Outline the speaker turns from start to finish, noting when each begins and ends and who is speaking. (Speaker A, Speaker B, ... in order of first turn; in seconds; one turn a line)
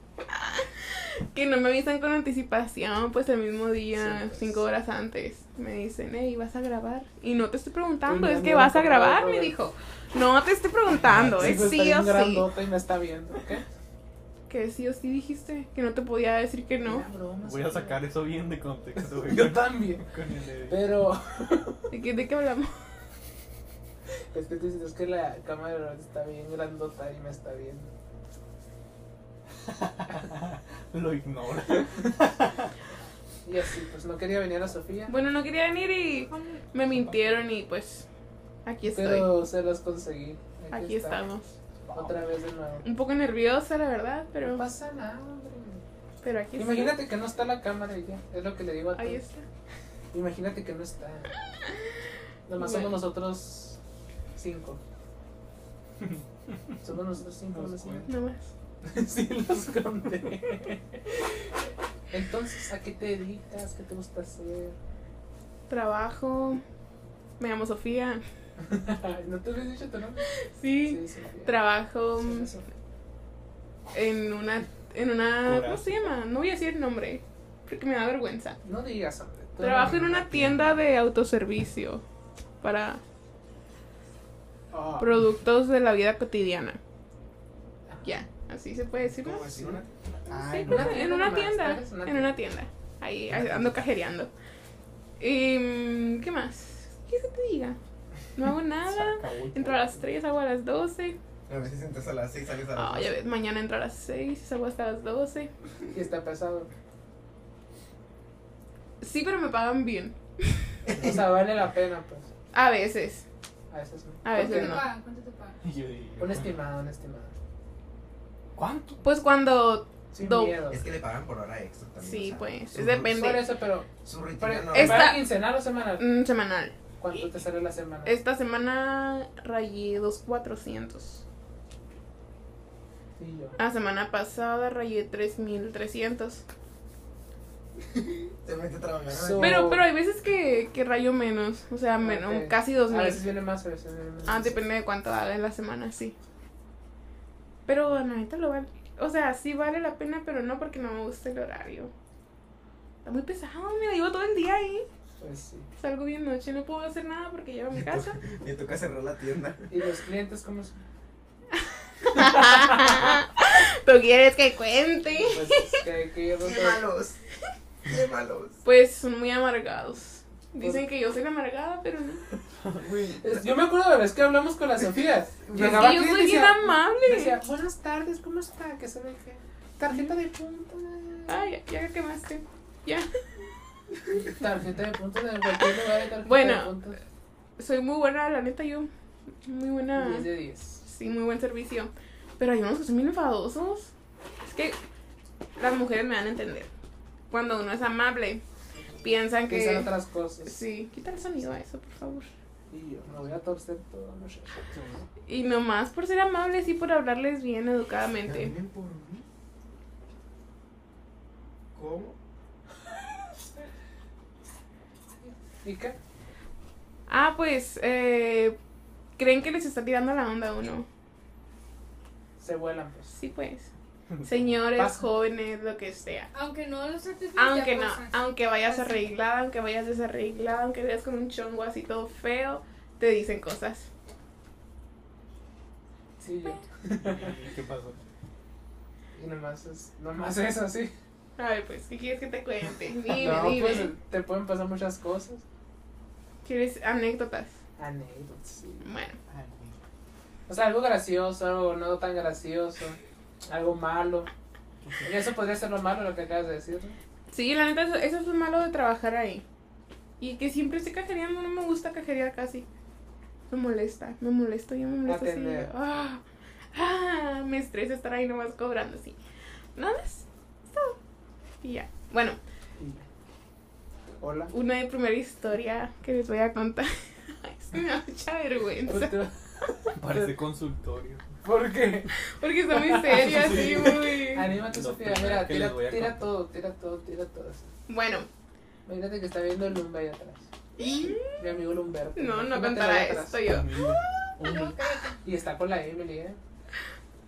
Speaker A: 0.3-12.4
Speaker B: 4.0-4.6
Speaker B: 8.0-9.5
Speaker B: 11.1-13.6
Speaker A: 14.5-17.1
Speaker B: 16.8-18.0
Speaker C: 17.4-20.9
Speaker B: 19.0-20.1
Speaker B: 20.7-21.8
Speaker A: 21.9-22.7
Speaker B: 24.3-27.9
Speaker C: 29.6-32.7
Speaker B: 33.4-35.1
Speaker A: 35.1-38.0
Speaker A: 38.6-39.3
Speaker B: 38.9-41.2
Speaker A: 40.7-41.5
Speaker C: 41.9-42.2
Speaker B: 41.9-42.8
Speaker A: 42.8-44.6
Speaker B: 44.4-45.8
Speaker A: 46.2-47.0
Speaker B: 46.5-49.2
Speaker A: 48.9-49.5
Speaker B: 50.1-51.3
Speaker B: 52.5-53.8
Speaker A: 52.5-53.0
Speaker B: 54.4-54.8
Speaker B: 56.8-58.1
Speaker C: 57.5-58.1
Speaker A: 58.1-58.5
Speaker B: 58.8-61.3
Speaker B: 62.1-64.8
Speaker A: 65.7-66.6
Speaker A: 67.4-68.2
Speaker B: 68.6-70.3
Speaker A: 70.3-72.5
Speaker B: 70.8-71.5
Speaker B: 72.2-72.6
Speaker A: 73.9-78.6
Speaker C: 75.4-75.9
Speaker B: 78.6-80.7
Speaker A: 79.6-82.0
Speaker A: 82.6-83.0
Speaker B: 84.7-85.2
Speaker A: 85.0-86.8
Speaker A: 88.0-89.4
Speaker D: 89.2-90.2
Speaker C: 90.3-91.1
Speaker A: 90.3-94.3
Speaker B: 90.6-92.3
Speaker A: 95.2-97.8
Speaker A: 98.3-101.2
Speaker C: 98.9-100.0
Speaker D: 101.5-103.1
Speaker A: 102.7-105.5
Speaker B: 105.9-106.7
Speaker A: 109.0-110.8
Speaker D: 110.9-111.1
Speaker B: 110.9-112.3
Speaker A: 112.5-113.2
Speaker B: 113.7-114.8
Speaker A: 114.2-114.9
Speaker E: 114.3-115.6
Speaker C: 115.6-116.5
Speaker B: 116.2-117.3
Speaker C: 118.5-119.0
Speaker A: 119.0-120.6
Speaker B: 120.1-120.8
Speaker D: 120.7-123.1
Speaker A: 122.0-123.4
Speaker B: 123.0-126.0
Speaker D: 124.0-125.1
Speaker A: 124.7-125.4
Speaker A: 126.0-126.8
Speaker B: 127.0-128.2
Speaker A: 128.0-131.2
Speaker B: 133.2-133.6
Speaker A: 133.6-136.4
Speaker D: 138.4-139.7
Speaker B: 139.1-139.8
Speaker A: 139.4-143.3
Speaker B: 142.0-144.6
Speaker A: 144.2-146.2
Speaker A: 147.7-151.9
Speaker A: 153.0-154.9
Speaker B: 155.2-155.7
Speaker A: 155.8-158.2
Speaker D: 157.7-159.7
Speaker B: 159.7-160.8
Speaker A: 161.6-165.8
Speaker B: 162.2-162.8
Speaker B: 165.3-166.8
Speaker D: 166.4-167.2
Speaker D: 167.8-168.6
Speaker A: 168.6-172.2
Speaker B: 170.6-170.8
Speaker C: 172.6-173.3
Speaker B: 173.2-181.5
Speaker D: 175.5-175.8
Speaker A: 175.5-177.4
Speaker A: 181.3-183.1
Speaker B: 184.1-187.0
Speaker A: 186.2-186.8
Speaker A: 187.6-188.9
Speaker A: 189.4-190.3
Speaker B: 189.9-190.8
Speaker A: 190.8-193.9
Speaker A: 194.4-194.8
Speaker A: 195.6-196.7
Speaker A: 197.3-198.4
Speaker A: 199.0-199.9
Speaker B: 199.5-200.5
Speaker A: 200.4-202.3
Speaker B: 202.7-204.6
Speaker C: 204.7-205.0
Speaker A: 205.2-208.5
Speaker D: 208.2-209.2
Speaker D: 211.7-212.2
Speaker B: 215.6-215.9
Speaker A: 217.1-218.6
Speaker A: 219.2-220.8
Speaker B: 222.4-223.2
Speaker A: 223.2-223.7
Speaker C: 224.1-224.5
Speaker A: 224.2-226.3
Speaker B: 224.7-225.0
Speaker E: 226.3-229.1
Speaker A: 227.3-233.9
Speaker B: 236.2-237.3
Speaker C: 237.0-238.0
Speaker B: 239.1-240.9
Speaker A: 241.4-243.9
Speaker B: 243.1-245.4
Speaker A: 246.4-247.5
Speaker B: 247.8-248.8
Speaker A: 248.8-249.2
Speaker C: 249.3-249.8
Speaker B: 250.5-254.3
Speaker C: 254.8-255.1
Speaker B: 255.0-257.0
Speaker A: 257.3-259.4
Speaker A: 260.2-262.7
Speaker A: 263.5-266.2
Speaker B: 265.1-265.7
Speaker A: 266.7-269.2
Speaker A: 269.8-271.0
Speaker A: 271.6-272.4
Speaker B: 272.8-273.0
Speaker B: 274.2-274.5
Speaker A: 274.5-279.2
Speaker B: 278.9-280.4
Speaker C: 280.0-281.3
Speaker B: 281.4-282.1
Speaker A: 282.1-284.5
Speaker B: 282.7-287.7
Speaker C: 283.1-286.3
Speaker A: 287.9-288.3
Speaker B: 288.9-290.4
Speaker A: 290.8-291.5
Speaker B: 291.4-293.4
Speaker A: 292.1-294.0
Speaker C: 293.4-294.7
Speaker E: 294.4-295.2
Speaker B: 295.2-296.4